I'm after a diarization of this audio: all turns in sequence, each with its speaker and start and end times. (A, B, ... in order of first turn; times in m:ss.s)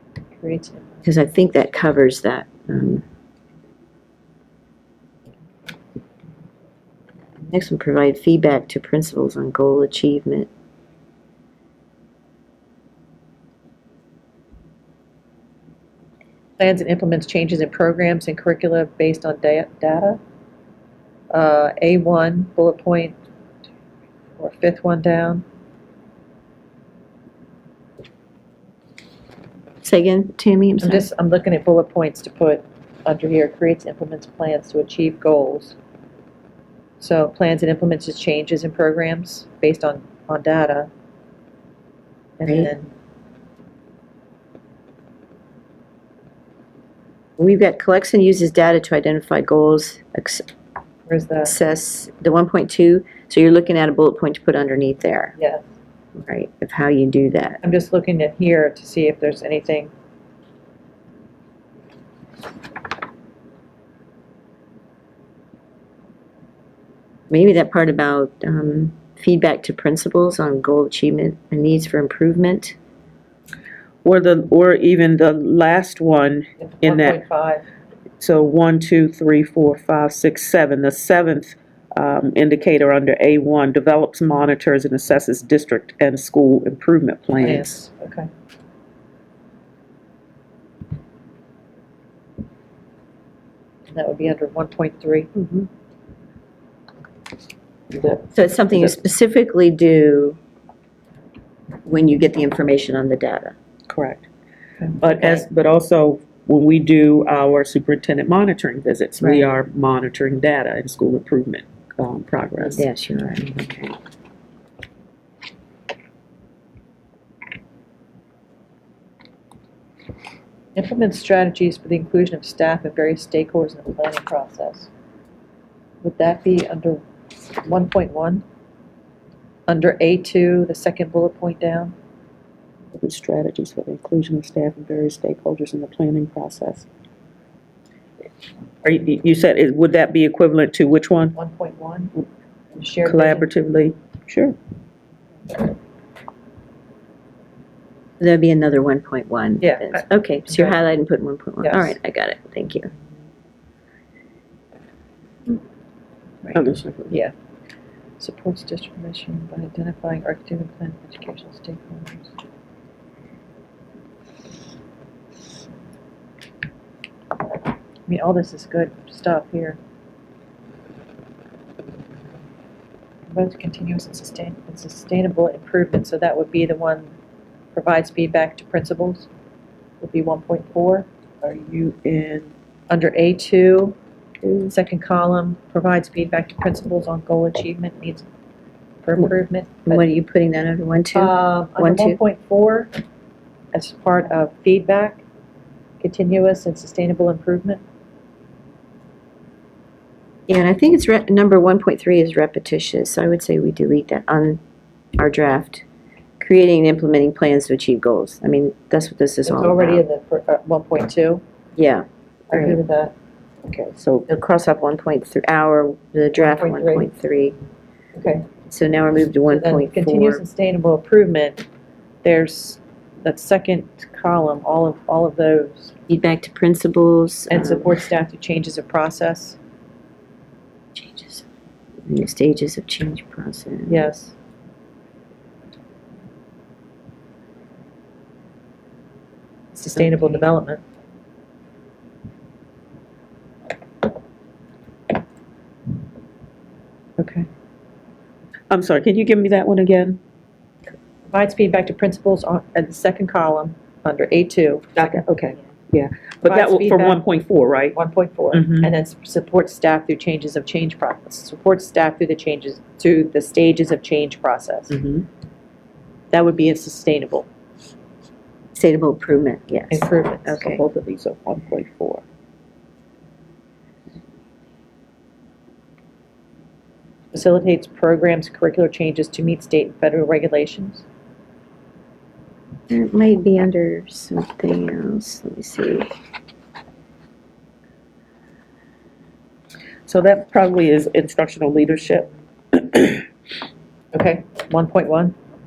0:00.4-0:01.0 A
0:01.0-0:03.0 B
0:07.5-0:10.5 B
0:16.6-0:20.2 A
0:21.3-0:23.2 A
0:24.4-0:25.4 A
0:29.8-0:31.1 B
0:30.8-0:35.8 A
0:37.0-0:40.9 A
0:42.4-0:42.9 A
0:47.4-0:50.4 B
0:51.1-0:51.5 A
0:51.4-0:55.4 B
0:55.4-0:55.6 A
0:56.1-0:57.6 B
0:57.6-0:59.9 A
1:07.3-1:12.8 B
1:14.0-1:17.2 C
1:16.6-1:17.6 A
1:18.2-1:27.7 C
1:27.4-1:28.3 A
1:33.9-1:35.3 A
1:37.9-1:39.0 C
1:38.3-1:40.4 B
1:41.8-1:43.5 B
1:43.9-1:44.2 C
1:44.8-1:45.4 A
1:45.0-1:52.8 C
1:52.7-1:54.0 B
2:00.8-2:04.9 A
2:06.0-2:07.0 A
2:07.6-2:08.4 A
2:09.7-2:11.9 A
2:13.0-2:16.9 C
2:18.8-2:21.3 C
2:21.3-2:22.1 A
2:22.7-2:23.5 A
2:23.0-2:24.5 C
2:28.2-2:32.9 B
2:29.6-2:30.8 A
2:31.6-2:31.9 A
2:36.5-2:37.2 C
2:38.2-2:42.3 A
2:48.1-2:49.8 A
2:53.3-2:57.1 A
2:57.7-2:59.3 A
3:00.0-3:01.1 A
3:01.4-3:02.5 C
3:02.9-3:04.0 A
3:04.4-3:04.7 C
3:04.7-3:08.2 A
3:09.0-3:10.0 A
3:09.8-3:12.2 B
3:11.1-3:12.9 A
3:13.7-3:15.2 A
3:16.0-3:17.8 A
3:20.5-3:24.6 B
3:25.2-3:25.8 B
3:26.4-3:30.0 B
3:29.4-3:31.4 A
3:31.8-3:32.8 B
3:32.5-3:33.1 A
3:33.9-3:34.3 C
3:34.3-3:37.6 B
3:36.4-3:37.1 A
3:38.1-3:38.5 A
3:38.7-3:40.4 B
3:39.5-3:41.6 A
3:42.2-3:45.9 A
3:46.1-3:48.0 B
3:47.5-3:49.6 A
3:50.9-3:51.4 B
3:52.0-3:54.0 B
3:53.9-3:54.3 A
3:59.7-4:00.8 A
4:07.2-4:07.5 A
4:08.7-4:10.2 C
4:11.3-4:15.2 A
4:15.0-4:18.0 C
4:16.4-4:17.2 A
4:17.9-4:25.0 A
4:18.5-4:18.9 C
4:24.9-4:25.2 C
4:26.3-4:27.5 A
4:28.7-4:30.8 B
4:29.9-4:30.6 A
4:30.6-4:32.2 C
4:37.3-4:41.0 A
4:42.9-4:46.1 B
4:50.1-4:53.2 C
4:54.1-4:55.3 A